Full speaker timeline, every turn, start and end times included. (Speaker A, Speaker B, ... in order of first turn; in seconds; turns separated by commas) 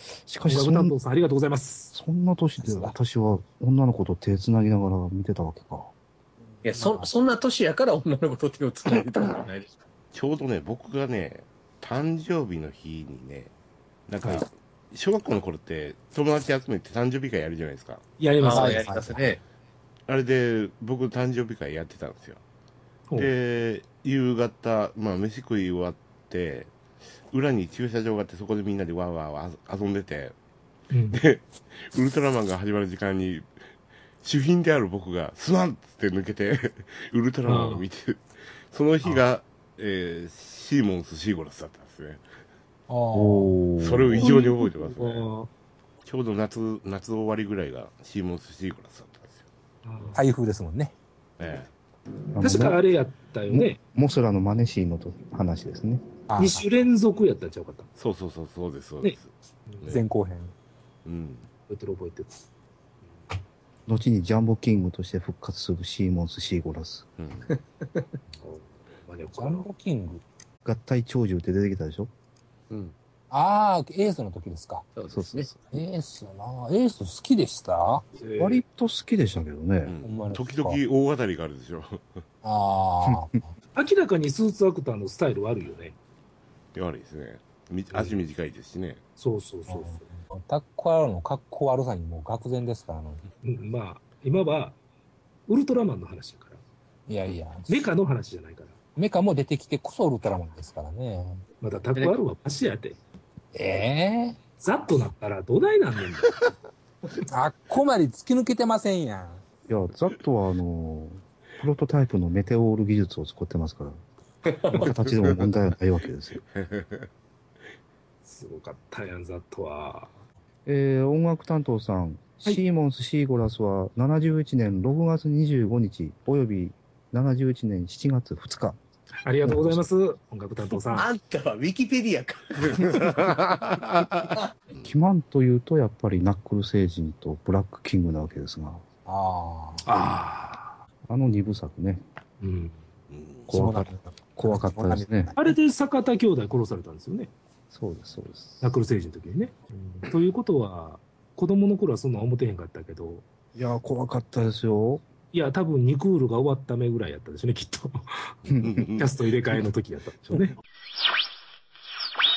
Speaker A: 0.2-0.9, Speaker B: 0.4-1.9, Speaker A: 1.9-5.9, Speaker C: 6.5-7.1, Speaker D: 6.6-9.7, Speaker E: 10.1-13.5, Speaker E: 14.1-18.0, Speaker B: 18.2-18.9, Speaker D: 18.4-19.4, Speaker C: 18.5-19.3, Speaker E: 20.1-22.4, Speaker E: 23.1-26.7, Speaker E: 27.3-30.3, Speaker B: 30.9-31.2, Speaker E: 31.1-33.5, Speaker E: 34.2-42.2, Speaker B: 37.4-37.8, Speaker C: 42.9-43.5, Speaker A: 43.1-44.3, Speaker E: 43.8-45.3, Speaker B: 44.2-45.5, Speaker E: 46.0-49.4, Speaker B: 49.8-50.2, Speaker C: 50.1-50.9, Speaker E: 51.4-51.7, Speaker A: 52.3-52.8, Speaker B: 52.4-53.8, Speaker A: 53.5-56.1, Speaker C: 56.3-56.6, Speaker B: 56.4-57.9, Speaker E: 58.0-59.3, Speaker C: 59.9-60.5, Speaker E: 61.0-61.5, Speaker B: 61.7-62.4, Speaker A: 63.9-67.1, Speaker E: 67.2-67.5, Speaker D: 67.5-68.1, Speaker B: 68.4-69.7, Speaker C: 69.3-70.2, Speaker A: 70.6-72.1, Speaker D: 72.7-72.9, Speaker C: 73.3-74.8, Speaker D: 75.0-75.5, Speaker A: 75.1-75.7, Speaker C: 75.7-78.0, Speaker B: 78.2-78.6, Speaker A: 78.4-80.0, Speaker E: 79.8-82.1, Speaker C: 80.0-80.7, Speaker C: 82.4-83.3, Speaker B: 83.7-86.0, Speaker E: 86.7-89.0, Speaker B: 87.9-88.2, Speaker B: 89.2-90.1, Speaker C: 89.7-93.2, Speaker B: 93.4-94.8, Speaker B: 95.5-96.6, Speaker C: 97.1-97.9, Speaker B: 97.7-98.8, Speaker C: 99.0-101.4, Speaker B: 101.6-103.0, Speaker C: 103.5-104.4, Speaker B: 104.6-106.4, Speaker C: 107.3-109.4, Speaker A: 109.7-114.0, Speaker D: 114.5-114.9, Speaker A: 114.7-116.4, Speaker E: 116.5-117.1, Speaker B: 118.2-120.2, Speaker A: 120.7-128.8, Speaker B: 129.2-131.1, Speaker A: 129.4-129.8, Speaker D: 130.9-133.3, Speaker E: 133.1-133.8, Speaker D: 134.2-134.5, Speaker A: 134.8-138.8, Speaker C: 139.1-139.8, Speaker B: 139.8-140.8, Speaker A: 141.1-142.0, Speaker B: 142.4-142.8, Speaker E: 143.1-143.5, Speaker A: 143.5-145.3, Speaker C: 143.5-145.5, Speaker B: 145.3-147.3, Speaker A: 147.7-148.7, Speaker B: 148.6-153.2, Speaker A: 153.5-155.0, Speaker B: 155.3-158.3, Speaker A: 158.5-158.8, Speaker E: 158.6-159.1, Speaker B: 159.0-160.6